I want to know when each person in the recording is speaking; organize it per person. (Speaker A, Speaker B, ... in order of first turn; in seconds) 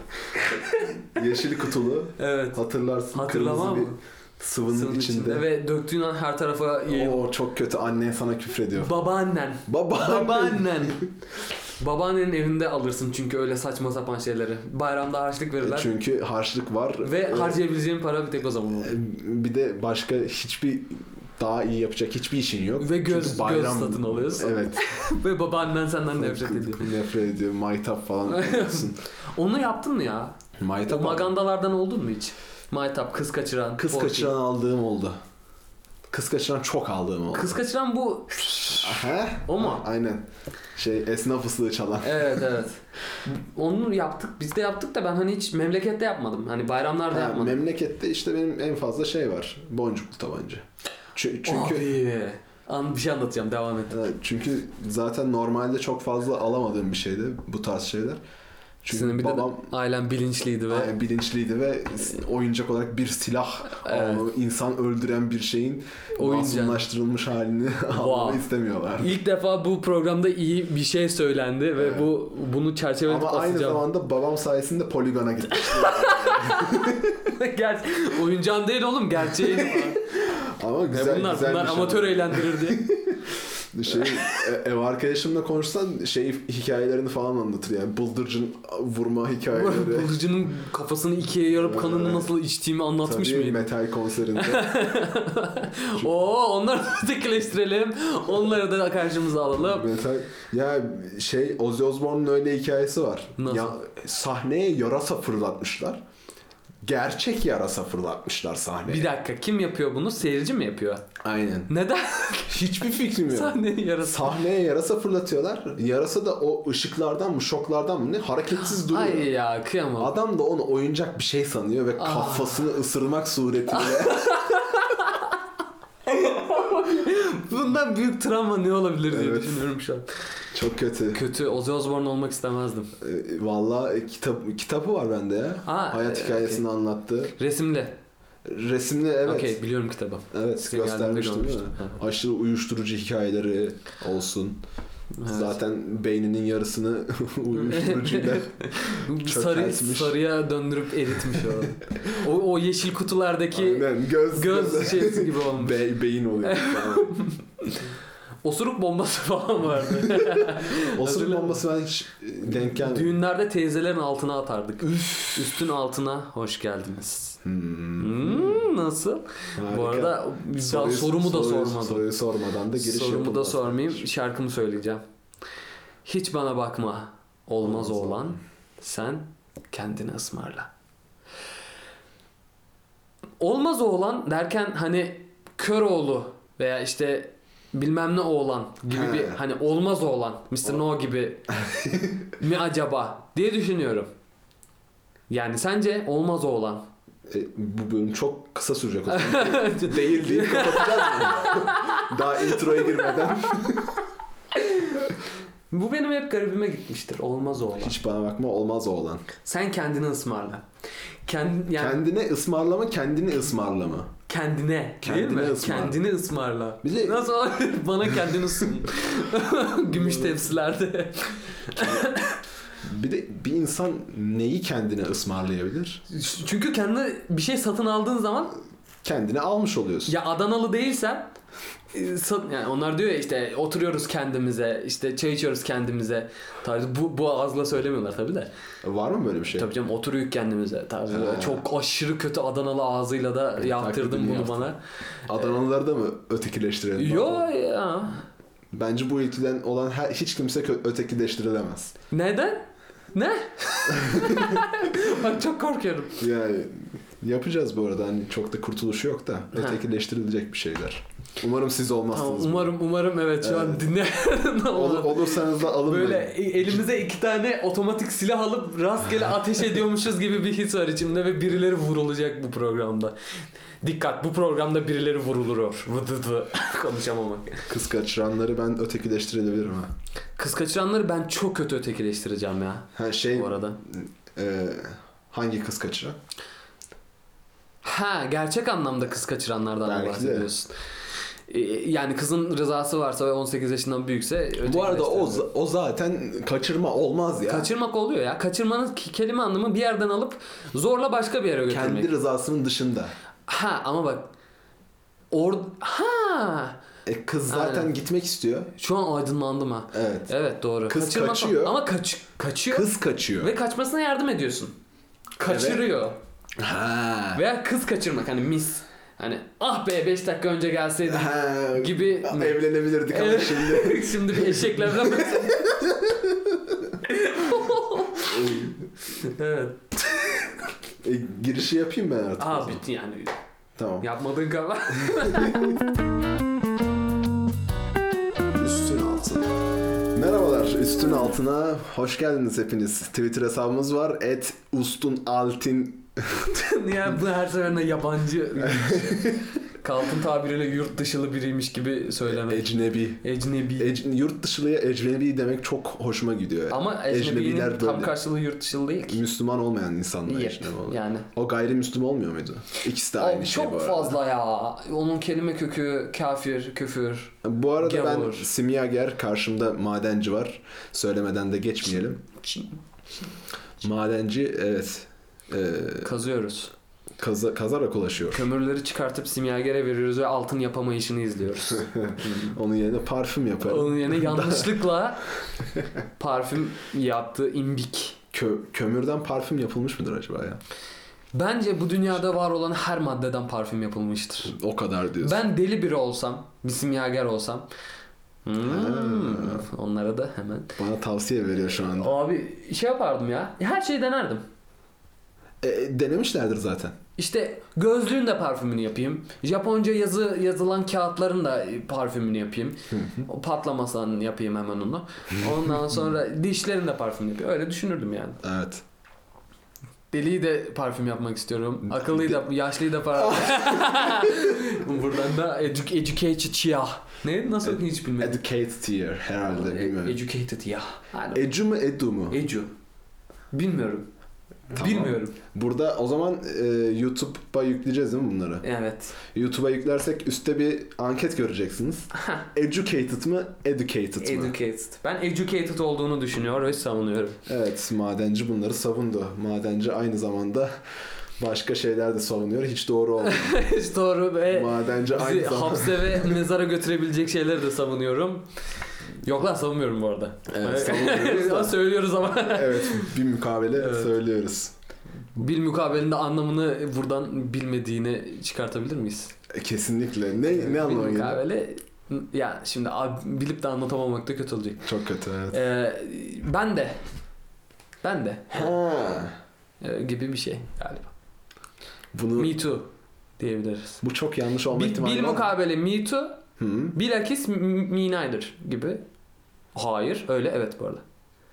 Speaker A: 0.3-1.0, 2.2-4.0, 4.7-7.3, 8.7-11.0, 11.8-15.9, 17.0-19.0, 22.8-26.9, 28.3-30.4, 30.9-34.4, 37.3-39.8, 42.0-47.6, 51.4-54.0, 58.9-60.9, 63.8-64.2, 66.2-66.9, 67.9-68.4, 69.0-73.8, 75.5-80.0, 80.9-82.8, 83.9-84.4, 89.5-93.7, 94.3-99.9, 103.4-103.8, 108.9-111.0, 111.7-114.4, 118.6-120.1, 122.0-122.7, 123.7-125.4, 126.1-130.1, 131.1-132.9, 135.7-136.6, 137.4-137.9, 139.2-141.9, 145.2-145.6, 147.5-155.9, 156.4-157.9, 158.4-161.6, 162.5-167.4, 168.0-172.1, 172.7-175.0, 176.0-180.7, 183.4-191.5, 192.4-194.1, 195.3-196.8, 199.1-203.2, 204.6-205.0, 205.7-207.9, 209.4-210.6, 211.2-212.0, 214.3-222.4, 226.1-228.5, 230.1-231.3, 231.9-238.5, 239.5-244.8, 246.9-248.2, 252.1-256.2, 262.1-273.1, 273.8-277.7, 280.4-283.8, 287.8-290.7, 291.5-295.5, 297.5-302.1, 303.5-304.3, 305.3-306.8, 307.5-307.9, 308.8-312.9, 313.4-314.7, 315.4-316.2, 317.3-325.7, 327.0-330.6, 332.4-333.3, 334.0-335.8, 346.3-353.9, 356.7-359.2, 360.2-361.3, 363.1-368.5, 376.0-376.7, 378.3-382.6, 383.6-385.2, 386.2-388.2, 391.3-394.6, 395.2-397.6, 398.4-400.7, 401.6-404.4, 407.2-418.4, 420.1-428.4, 429.5-431.4, 432.3-432.7, 433.5-434.1, 434.7-435.4, 438.6-439.2, 442.1-442.4, 444.2-447.4, 453.2-458.4, 459.2-463.1, 463.8-464.1, 465.4-469.3, 470.4-474.8, 475.5-477.0, 478.0-478.8, 479.8-481.1, 482.4-484.0, 484.7-486.4, 486.9-489.0, 489.7-491.0
Speaker B: 1.0-5.5, 6.9-8.9, 9.7-11.1, 15.6-17.6, 18.7-24.9, 26.2-29.0, 30.6-31.3, 33.8-35.2, 36.1-37.5, 38.7-42.4, 47.1-51.9, 53.9-58.2, 58.8-59.7, 60.7-69.2, 71.8-72.1, 73.1-77.2, 79.4-90.1, 91.6-92.3, 93.0-94.9, 99.5-106.0, 106.8-109.1, 111.2-111.7, 112.5-119.3, 120.0-124.3, 129.1-129.7, 130.5-131.2, 133.0-137.3, 138.4-139.6, 140.3-144.6, 145.2-150.2, 151.3-151.6, 153.5-157.2, 160.2-163.1, 165.0-165.4, 167.4-168.7, 169.6-174.0, 177.6-178.3, 188.9-189.4, 191.5-192.3, 197.3-204.0, 207.8-209.2, 211.8-214.1, 215.0-216.0, 216.8-217.3, 220.0-220.3, 221.8-222.1, 222.8-226.0, 229.0-230.1, 238.8-239.7, 241.1-241.6, 243.6-244.7, 245.3-247.5, 248.7-251.9, 253.9-254.6, 256.2-262.7, 263.4-263.9, 264.7-266.8, 277.7-279.9, 282.9-286.2, 289.8-290.5, 294.6-297.7, 301.7-303.1, 307.1-308.7, 309.9-310.3, 310.9-311.8, 312.7-313.5, 315.4-315.9, 316.6-317.4, 321.1-326.9, 328.2-328.8, 331.0-332.8, 333.8-334.1, 335.0-335.8, 338.6-339.5, 340.1-346.4, 348.6-349.4, 352.2-358.1, 359.1-364.1, 367.4-372.2, 373.8-376.1, 377.2-378.5, 381.8-384.8, 388.3-390.6, 394.5-395.4, 398.6-399.7, 400.8-402.1, 405.6-406.9, 412.9-413.3, 418.4-418.8, 421.8-422.4, 423.1-424.6, 427.6-430.2, 431.3-432.4, 434.8-438.6, 439.2-444.5, 447.5-450.7, 451.4-453.6, 454.5-456.4, 460.5-464.7, 469.5-471.4, 474.8-475.6, 478.5-479.4, 482.1-482.6, 484.0-485.5, 486.6-486.9